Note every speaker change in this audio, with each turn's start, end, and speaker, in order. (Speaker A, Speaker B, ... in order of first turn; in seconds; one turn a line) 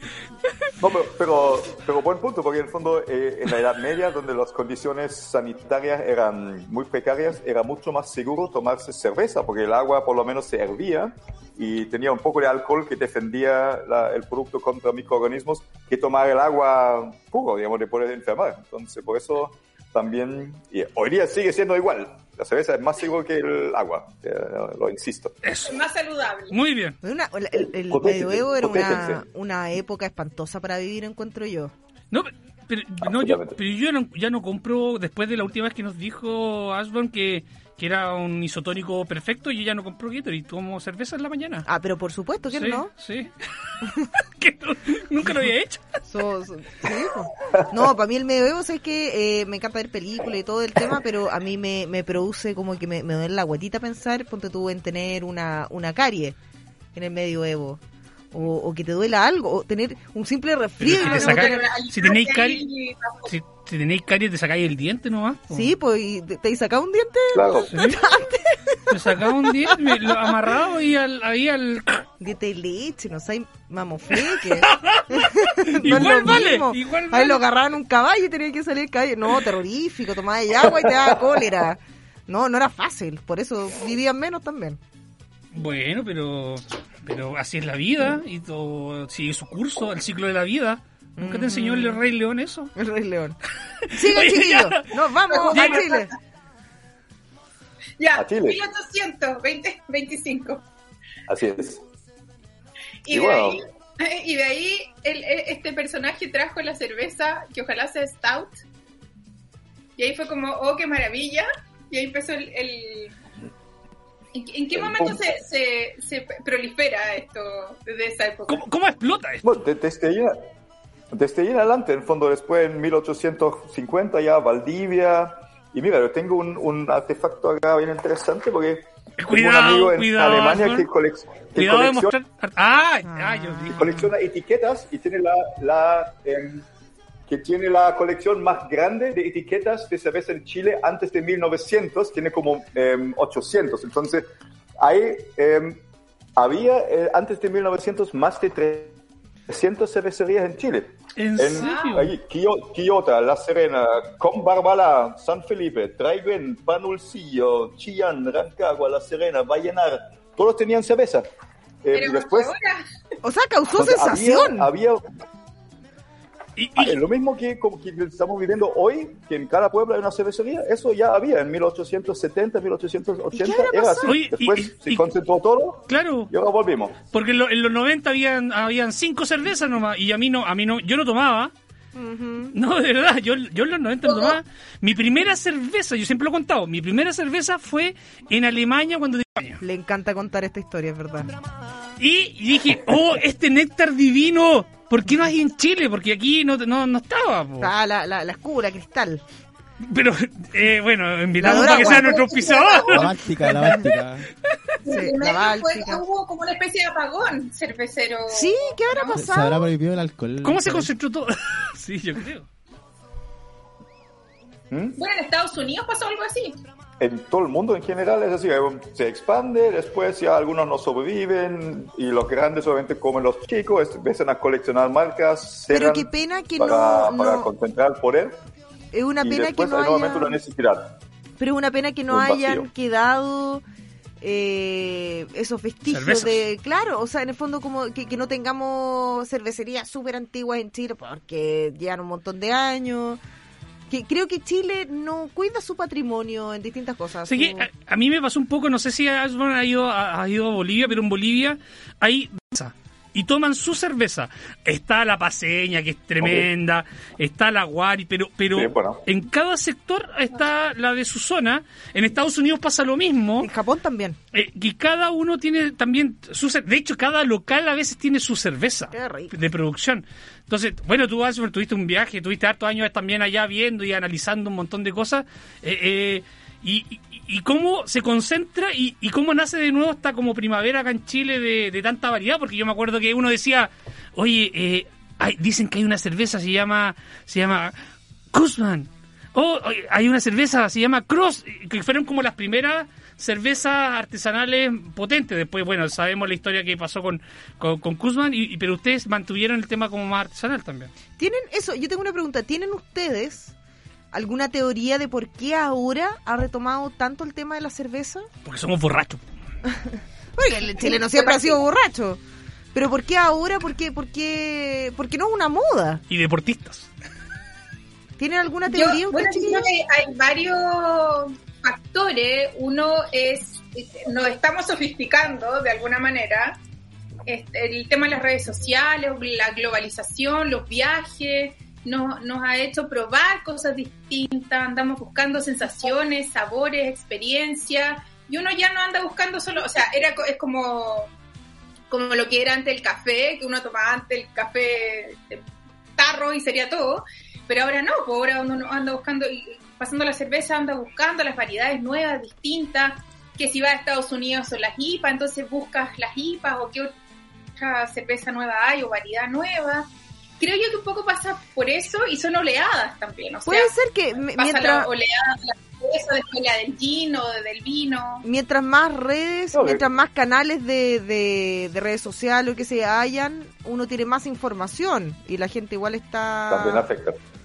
Speaker A: 0.8-25.3
Speaker B: 25.4-25.8
Speaker C: 25.6-26.6
Speaker B: 26.5-27.0
Speaker D: 27.0-31.7
Speaker A: 27.6-29.2
Speaker B: 32.1-41.7
Speaker A: 33.0-33.6
Speaker D: 41.6-42.9
Speaker B: 42.5-45.8
Speaker D: 46.1-56.4
Speaker D: 56.9-57.8
Speaker D: 58.3-61.6
Speaker B: 60.8-62.6
Speaker C: 60.9-63.3
Speaker B: 63.3-65.7
Speaker D: 65.5-70.1
Speaker A: 67.3-67.8
Speaker B: 67.7-68.0
Speaker B: 68.9-72.0
Speaker D: 72.2-84.8
Speaker B: 74.5-77.4
Speaker A: 80.9-81.4
Speaker B: 85.5-92.7
Speaker D: 91.2-92.0
Speaker D: 92.8-93.4
Speaker D: 93.9-96.1
Speaker B: 94.0-94.9
Speaker C: 95.3-96.1
Speaker B: 95.5-95.8
Speaker C: 98.0-100.6
Speaker A: 98.1-98.6
Speaker A: 101.3-101.8
Speaker C: 103.0-108.6
Speaker A: 103.1-103.6
Speaker C: 110.0-113.1
Speaker C: 114.3-118.6
Speaker A: 114.7-115.2
Speaker B: 118.5-119.4
Speaker A: 119.4-120.3
Speaker A: 121.1-132.1
Speaker B: 129.2-130.9
Speaker B: 131.5-134.1
Speaker D: 133.1-133.8
Speaker A: 133.7-136.6
Speaker A: 137.3-144.3
Speaker A: 144.8-145.8
Speaker A: 146.3-148.9
Speaker A: 149.5-161.3
Speaker B: 151.2-152.1
Speaker C: 151.6-151.9
Speaker A: 161.8-162.5
Speaker C: 161.9-162.8
Speaker D: 163.2-164.7
Speaker A: 163.8-165.0
Speaker B: 166.6-167.0
Speaker A: 166.8-177.0
Speaker D: 173.3-174.2
Speaker B: 174.1-175.1
Speaker B: 175.9-176.3
Speaker B: 177.1-181.5
Speaker D: 181.9-182.5
Speaker B: 182.5-189.6
Speaker C: 184.1-184.4
Speaker D: 189.6-191.3
Speaker B: 192.0-197.7
Speaker D: 197.6-199.2
Speaker B: 199.8-203.1
Speaker D: 201.4-202.3
Speaker C: 201.4-203.1
Speaker E: 202.9-204.3
Speaker D: 203.4-203.9
Speaker C: 204.8-209.1
Speaker D: 204.9-206.0
Speaker D: 208.3-209.7
Speaker E: 209.1-210.9
Speaker B: 210.4-212.5
Speaker A: 214.7-215.0
Speaker C: 214.9-216.6
Speaker A: 217.0-228.4
Speaker D: 225.7-227.5
Speaker D: 228.9-230.3
Speaker A: 229.2-230.9
Speaker D: 231.4-233.6
Speaker A: 232.1-232.7
Speaker D: 234.2-243.2
Speaker B: 235.9-236.4
Speaker D: 243.9-247.7
Speaker B: 247.3-263.5
Speaker A: 256.2-256.5
Speaker A: 258.5-259.0
Speaker D: 263.4-264.2
Speaker B: 264.3-287.7
Speaker D: 268.9-269.3
Speaker B: 288.3-300.9
Speaker D: 301.2-303.5
Speaker D: 304.1-308.3
Speaker B: 308.4-309.2
Speaker D: 309.6-312.2
Speaker C: 310.7-311.6
Speaker D: 312.7-316.0
Speaker B: 316.1-316.9
Speaker D: 318.2-319.7
Speaker C: 318.7-326.6
Speaker C: 327.2-341.1
Speaker C: 341.9-345.4
Speaker C: 346.0-356.9
Speaker C: 357.6-359.9
Speaker C: 360.4-363.7
Speaker D: 363.4-364.9
Speaker C: 364.4-368.2
Speaker D: 368.2-376.9
Speaker A: 369.5-369.9
Speaker A: 376.5-377.2